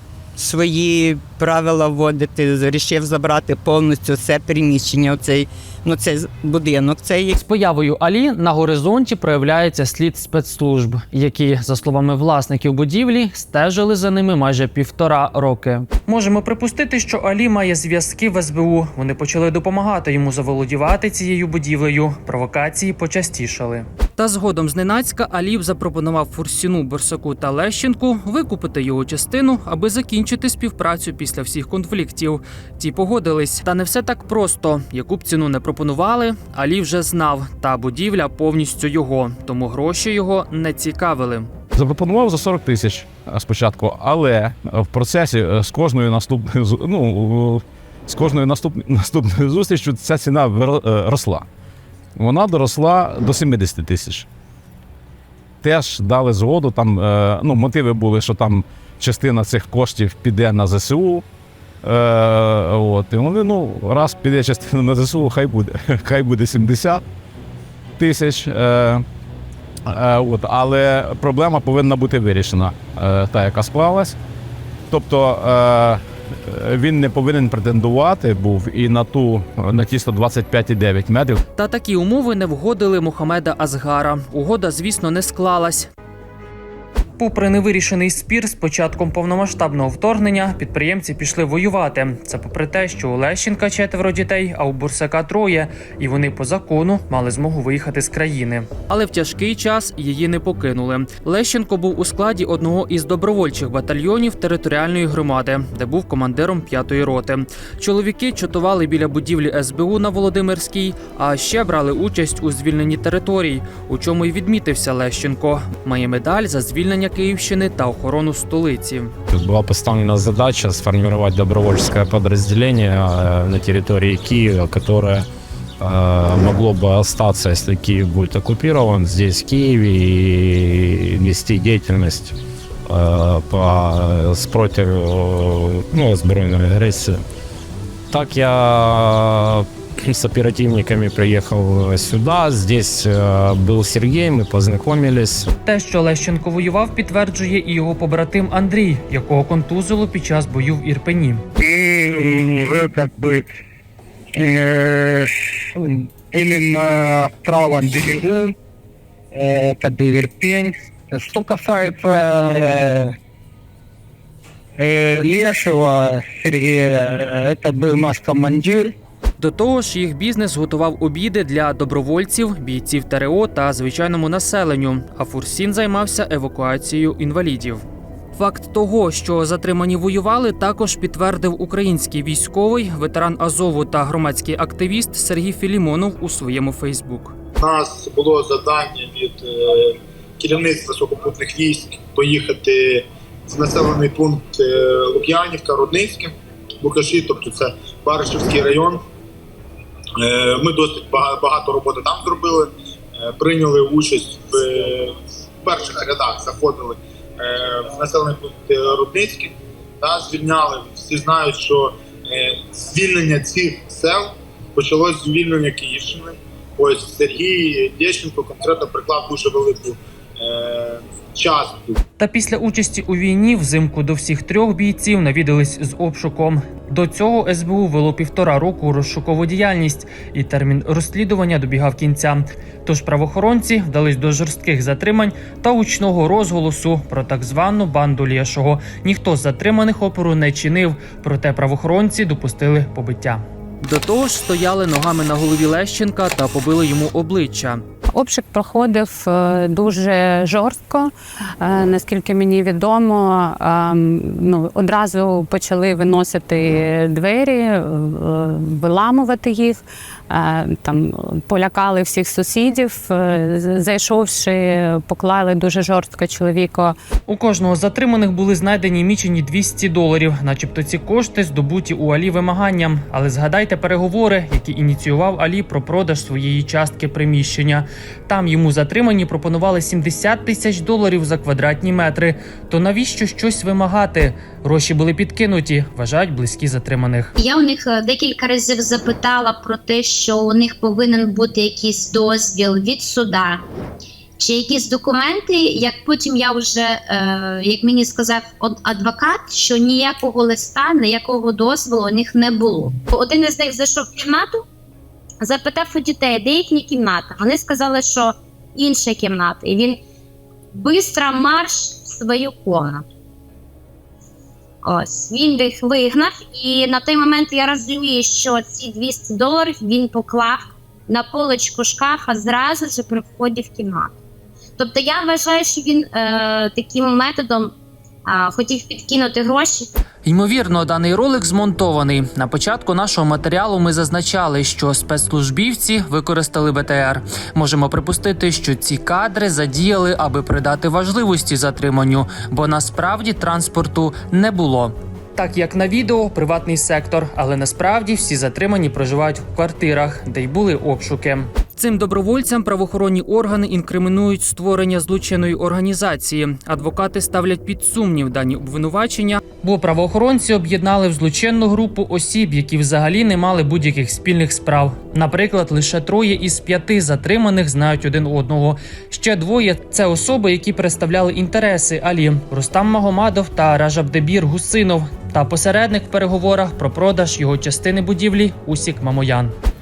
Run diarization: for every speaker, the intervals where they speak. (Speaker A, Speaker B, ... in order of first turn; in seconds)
Speaker A: 0.4-7.3
Speaker B: 7.3-41.5, 81.6-85.9, 87.2-119.1, 145.6-151.4, 169.4-177.8, 178.3-187.3, 222.2-247.8, 267.3-287.3, 330.2-379.5
Speaker C: 41.7-51.5, 52.2-54.3, 55.6-61.2, 61.8-67.0, 68.0-69.0, 69.8-74.2, 74.9-81.4
Speaker D: 119.3-125.3, 125.8-132.3, 132.9-137.2, 138.1-145.5
Speaker E: 151.6-153.4, 154.3-158.5, 159.3-163.1, 164.8-168.9
Speaker F: 187.6-199.0, 200.2-222.0
Speaker G: 248.1-266.9
Speaker H: 287.4-293.6, 294.4-304.6, 305.4-310.0, 310.7-313.0, 314.8-324.1, 324.8-327.7, 328.2-329.9